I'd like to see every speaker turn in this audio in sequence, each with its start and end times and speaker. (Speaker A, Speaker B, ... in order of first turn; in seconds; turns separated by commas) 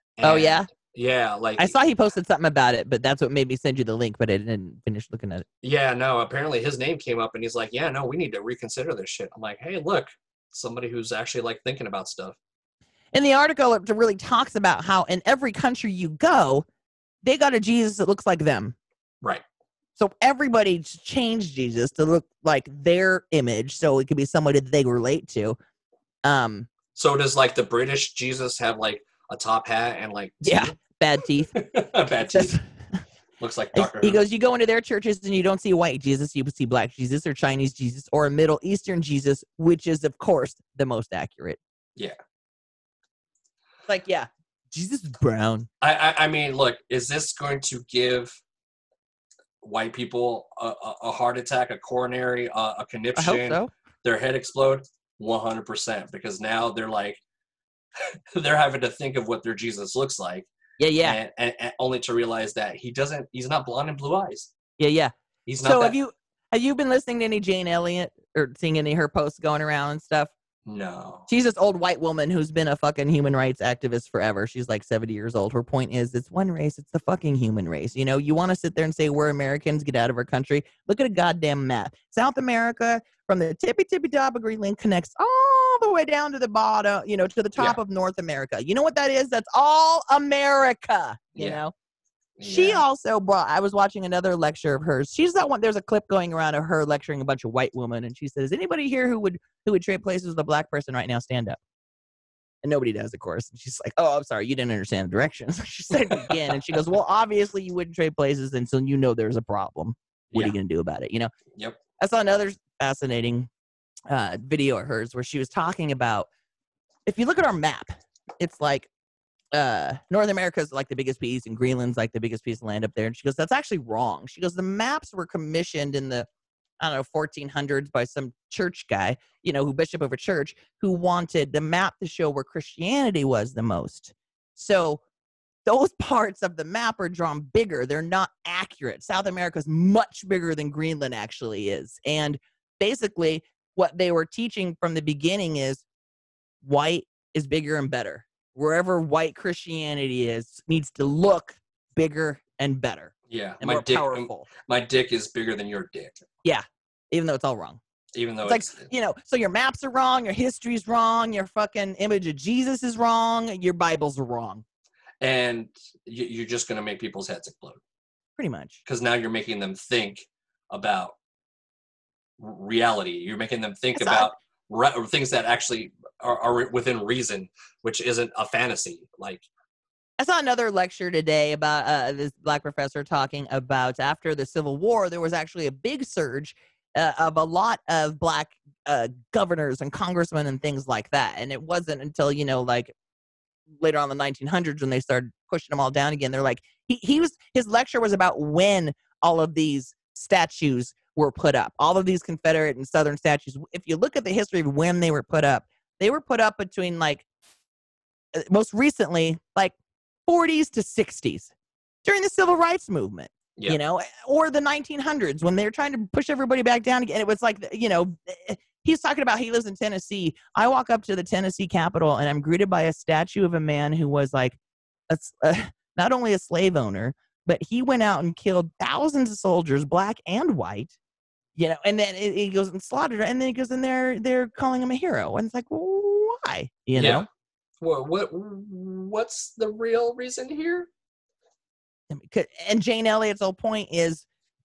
Speaker A: 0.2-1.8, Speaker B: 0.2-0.7, Speaker B: 1.6-5.4, Speaker A: 5.6-12.4, Speaker B: 13.1-16.6, Speaker B: 17.2-18.8, Speaker B: 20.0-25.6, Speaker B: 26.2-26.7, Speaker A: 26.9-30.8, Speaker B: 30.4-31.5, Speaker A: 31.5-32.6, Speaker B: 32.3-32.6, Speaker A: 33.4-34.2, Speaker B: 33.7-41.6, Speaker B: 43.9-45.7, Speaker A: 45.8-48.4, Speaker A: 49.6-57.2, Speaker B: 53.1-53.7, Speaker A: 58.0-60.5, Speaker B: 60.8-61.2, Speaker A: 61.0-64.5, Speaker B: 64.8-70.3, Speaker A: 65.5-66.0, Speaker A: 70.7-71.3, Speaker B: 71.3-91.7, Speaker A: 91.3-91.6, Speaker A: 92.4-92.8, Speaker B: 92.4-101.6, Speaker B: 102.6-111.3, Speaker A: 106.1-106.5, Speaker A: 111.5-111.8, Speaker B: 112.0-113.5, Speaker B: 114.1-116.3, Speaker B: 117.0-118.9, Speaker B: 119.5-126.3, Speaker B: 126.8-135.0, Speaker B: 135.7-145.8, Speaker B: 146.6-154.5, Speaker A: 153.3-156.2, Speaker B: 156.4-157.8, Speaker A: 158.1-158.9, Speaker B: 158.4-164.6, Speaker A: 165.2-167.8, Speaker B: 168.4-168.8, Speaker A: 168.8-171.1, Speaker A: 172.4-179.4, Speaker B: 173.9-174.3, Speaker B: 180.2-192.9, Speaker B: 193.8-207.2, Speaker B: 208.3-209.7, Speaker B: 210.3-211.5, Speaker B: 212.0-224.6, Speaker B: 225.1-230.9, Speaker B: 231.6-237.3, Speaker A: 236.9-237.3, Speaker A: 237.8-240.9, Speaker B: 242.1-244.2